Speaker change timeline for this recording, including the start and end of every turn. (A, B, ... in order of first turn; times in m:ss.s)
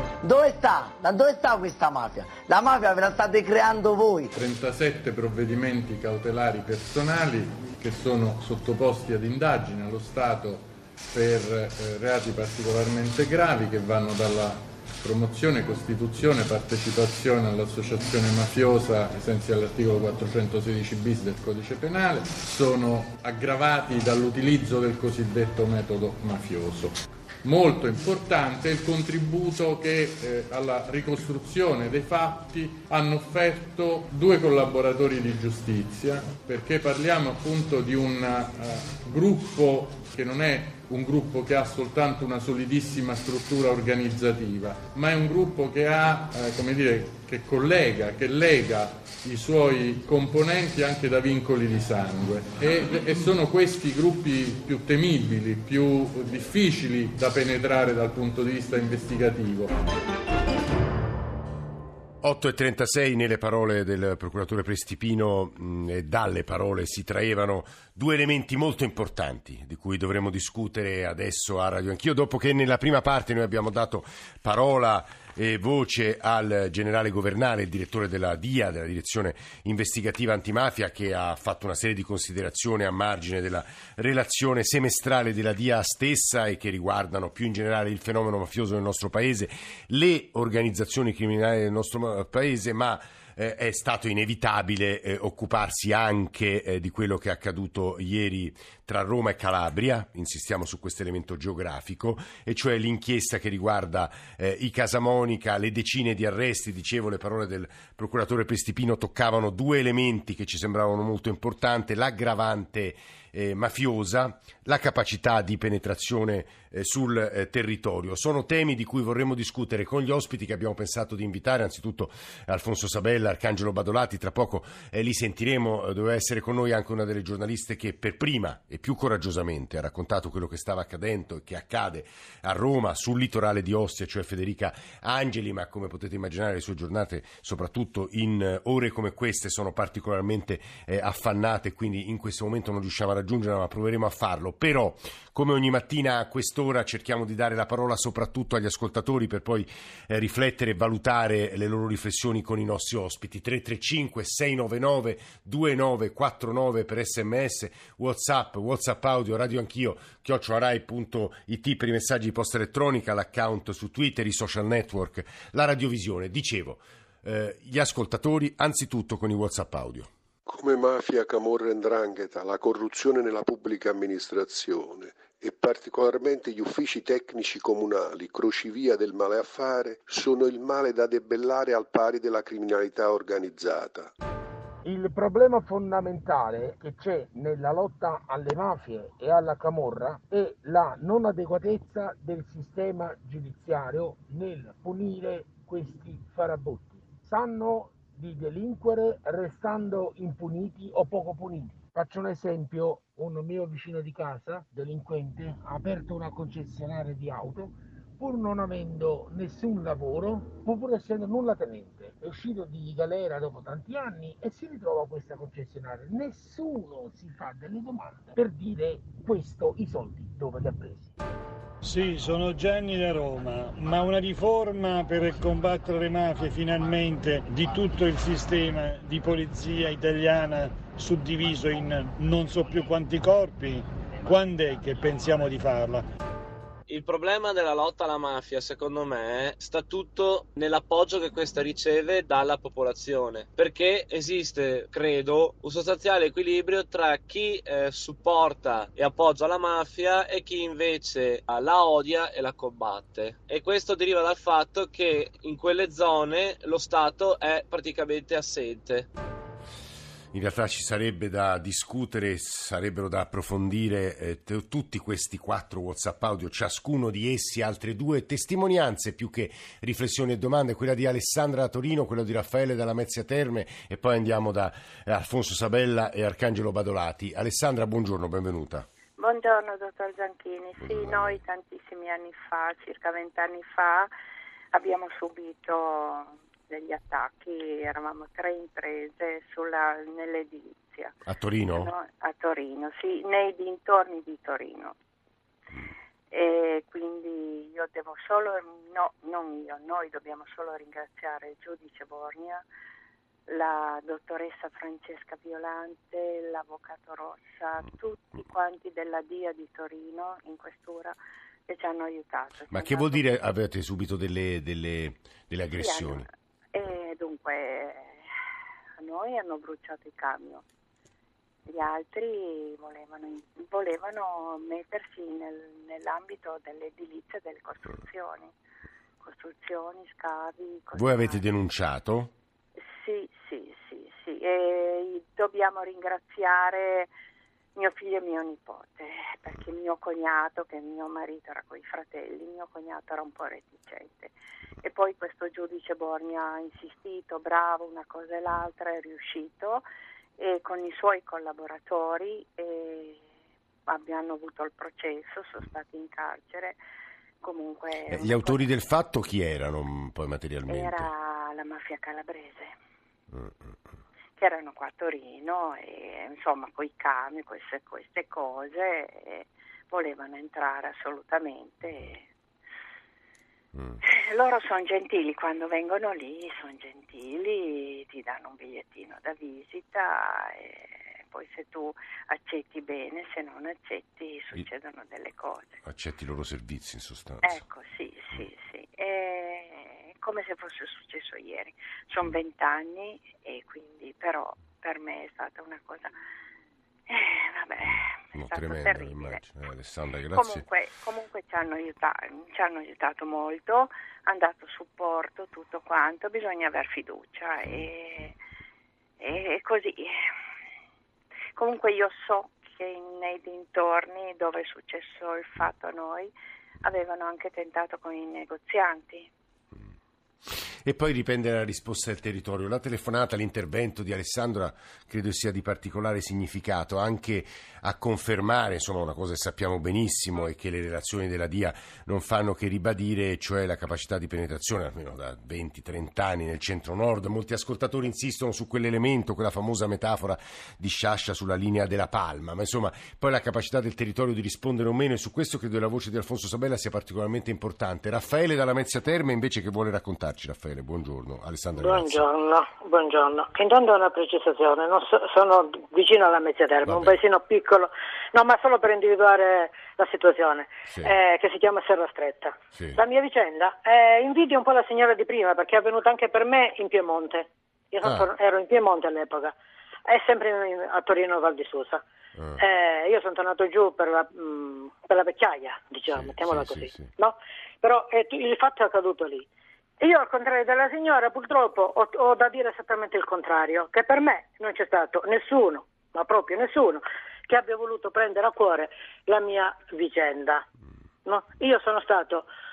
0:00.2-0:04.3 A
0:04.3-0:59.7 B
1:02.2-2:50.1 C
2:50.4-3:04.1 D
3:04.8-3:41.1 E
3:41.8-3:56.0 F
3:56.9-4:19.1 G
4:20.3-4:38.8 C
4:39.2-4:44.1 H
4:40.8-4:41.4 C
4:44.7-4:51.2 H
4:51.2-4:51.9 C
4:51.7-4:55.0 H
4:56.3-5:02.6 H
5:03.5-5:11.1 H
5:11.7-5:13.4 H
5:12.7-5:16.2 C
5:15.8-5:18.2 H
5:19.0-5:20.6 H
5:21.7-5:28.5 H
5:29.2-5:31.4 H
5:30.9-5:32.3 C
5:32.8-5:37.1 H
5:37.8-5:49.8 H
5:50.4-5:53.2 H
5:53.9-5:56.8 H
5:57.4-5:58.7 H
5:58.1-6:01.1 C
6:00.7-6:02.8 H
6:03.3-6:03.7 C
6:04.4-6:12.2 H
6:14.0-6:25.8 H
6:25.8-6:27.6 C
6:27.4-6:36.1 H
6:37.1-6:39.4 H
6:37.9-6:40.6 C
6:40.3-6:48.3 H
6:49.2-6:50.1 H
6:51.6-6:56.3 H
6:56.8-6:59.3 H
7:00.8-7:32.2 C
7:31.8-7:49.5 I
7:36.8-7:37.2 C
7:42.7-7:43.0 C
7:48.0-7:48.3 C
7:50.0-7:52.0 I
7:52.6-7:59.5 I
7:56.1-7:57.1 C
8:00.0-8:10.6 I
8:11.2-8:12.5 I